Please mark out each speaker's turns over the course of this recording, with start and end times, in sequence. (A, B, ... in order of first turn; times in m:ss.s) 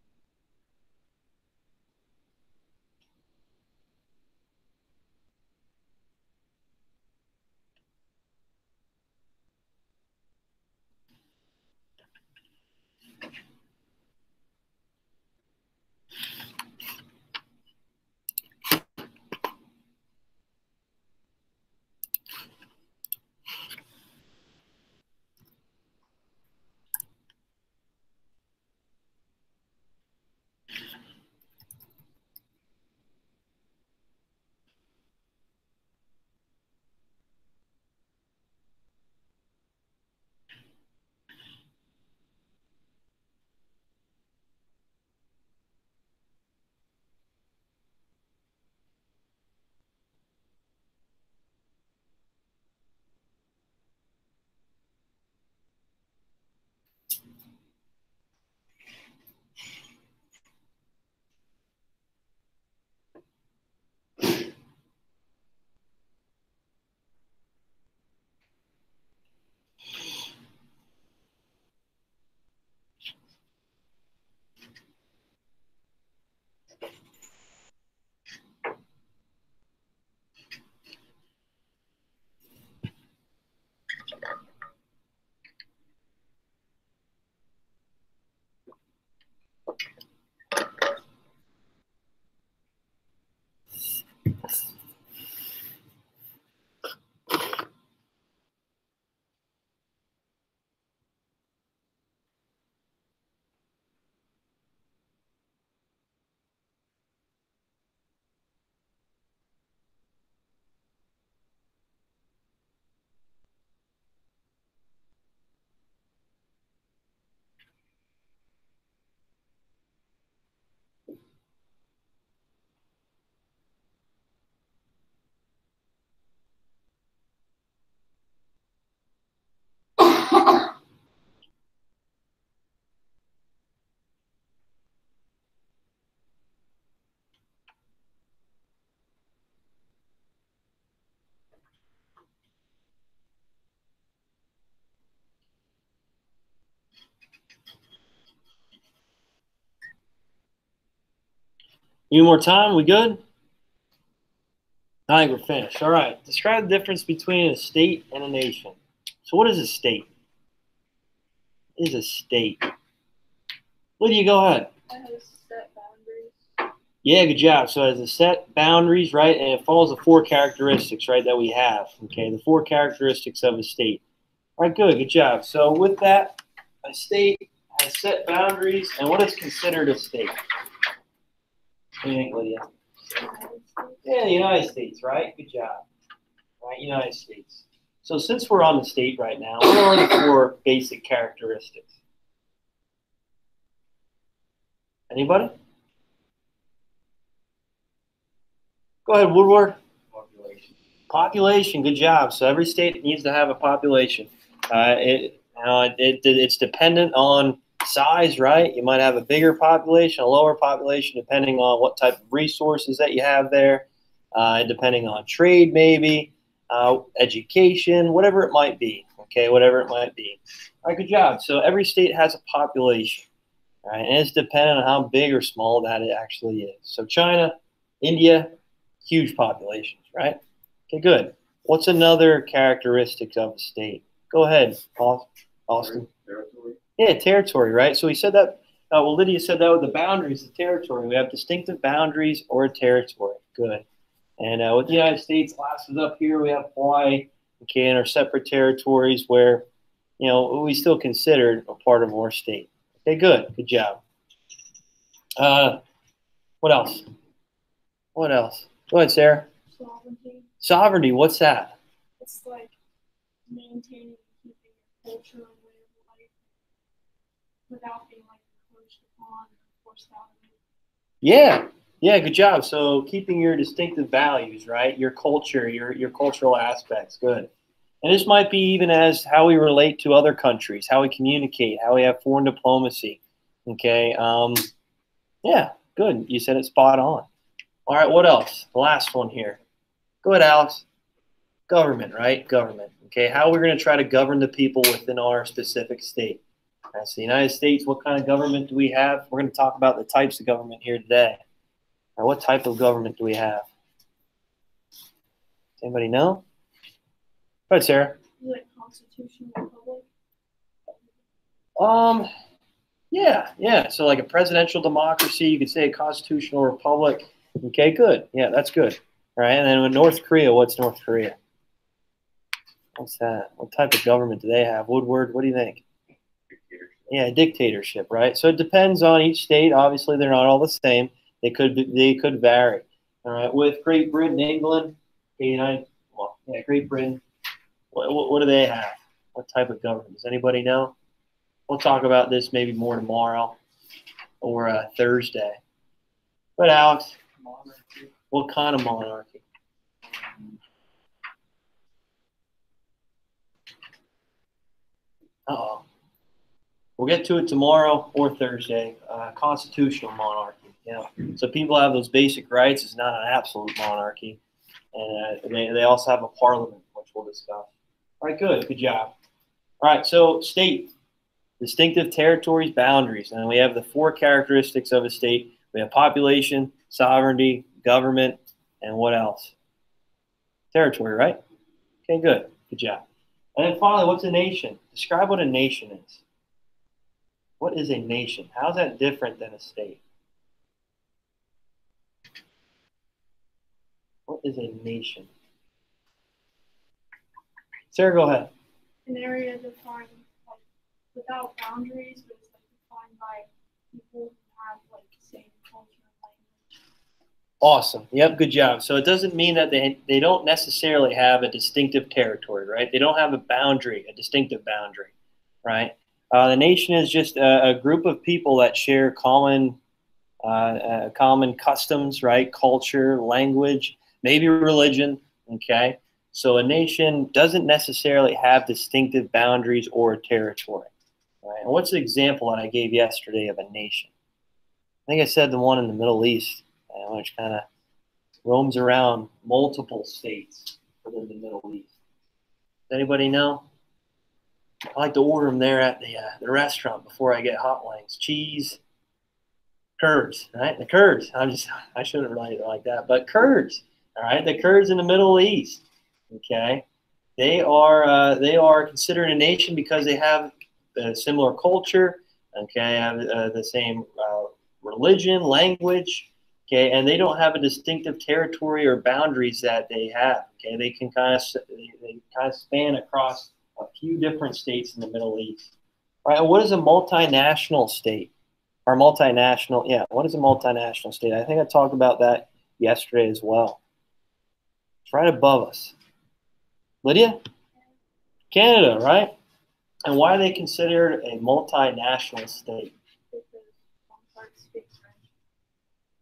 2:32.1-2:33.2 A
2:35.1-2:40.1 A
2:41.8-2:42.7 A
2:44.0-2:44.7 A
2:44.9-2:46.4 B
2:47.0-2:54.0 A
2:54.6-3:00.4 A
3:02.0-3:02.6 A
3:03.1-3:04.0 B
3:04.0-3:05.8 A
3:06.6-3:11.9 A
3:15.1-3:15.5 A
3:19.0-3:19.8 A
3:20.1-3:20.7 C
3:21.1-3:43.2 A
3:43.8-3:48.5 A
3:49.0-3:50.4 A
3:50.9-3:56.1 A
3:55.8-3:56.8 C
3:57.0-4:03.8 A
4:04.4-4:09.6 A
4:10.2-4:14.0 A
4:15.4-4:15.8 A
4:16.6-4:17.0 A
4:18.2-4:19.5 A
4:19.7-4:20.5 B
4:20.6-4:21.7 A
4:22.2-4:22.7 B
4:23.5-4:26.5 B
4:27.7-4:30.6 B
4:31.2-4:37.5 A
4:38.0-4:44.7 A
4:45.4-4:47.2 A
4:47.9-4:49.6 A
4:50.2-4:50.8 A
4:51.7-4:56.4 A
4:56.9-5:01.4 A
5:02.2-5:03.6 A
5:05.8-5:06.4 A
5:07.7-5:08.2 A
5:08.4-5:10.0 B
5:11.8-5:12.3 A
5:13.1-5:21.4 A
5:23.0-5:25.8 A
5:26.5-5:27.1 C
5:27.1-5:37.2 A
5:37.9-5:40.9 A
5:41.7-5:43.6 A
5:44.4-5:45.6 A
5:46.6-5:47.2 A
5:47.4-5:48.1 C
5:48.3-5:49.4 A
5:55.5-5:55.8 A
5:57.0-6:04.4 A
6:04.9-6:07.7 A
6:08.2-6:09.1 A
6:09.8-6:10.9 A
6:11.6-6:19.5 A
6:20.7-6:21.4 A
6:22.1-6:23.0 A
6:23.6-6:26.2 A
6:27.6-6:30.0 A
6:34.3-6:35.3 A
6:37.9-6:38.5 A
6:39.0-6:40.6 B
6:41.1-6:46.7 B
6:47.6-6:55.1 A
6:55.6-6:59.8 A
7:00.4-7:10.9 A
7:11.4-7:14.1 A
7:15.1-7:17.6 A
7:18.4-7:21.9 A
7:22.9-7:23.6 A
7:24.9-7:28.8 A
7:30.0-7:36.8 A
7:37.4-7:55.7 A
7:56.2-7:58.3 A
7:58.9-8:03.8 A
8:05.1-8:05.9 A
8:07.0-8:07.4 A
8:08.5-8:09.3 A
8:10.0-8:12.9 A
8:13.3-8:15.3 B